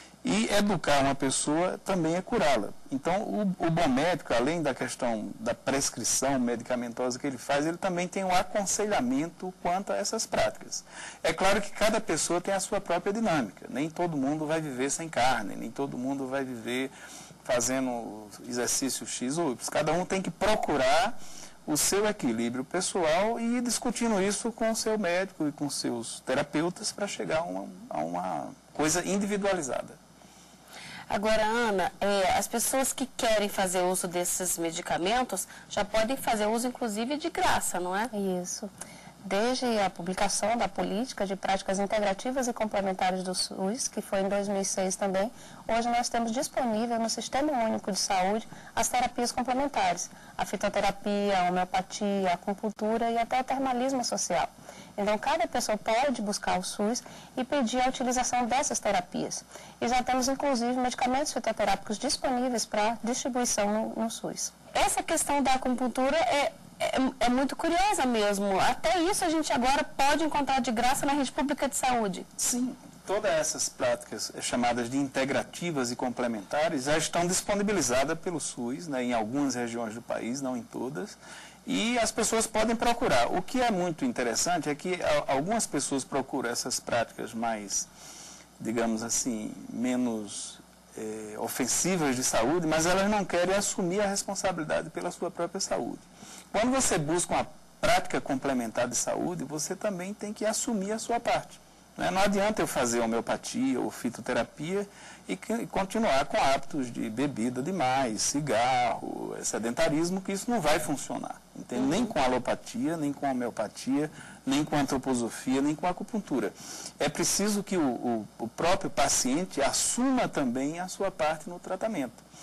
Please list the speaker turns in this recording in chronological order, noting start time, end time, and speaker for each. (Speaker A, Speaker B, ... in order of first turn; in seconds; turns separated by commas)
Speaker A: 0.2-30.0, Speaker B: 31.1-38.1, Speaker C: 38.1-38.7, Speaker C: 39.2-64.5, Speaker B: 64.7-72.2, Speaker A: 72.4-87.9, Speaker A: 88.6-122.2, Speaker B: 111.8-112.1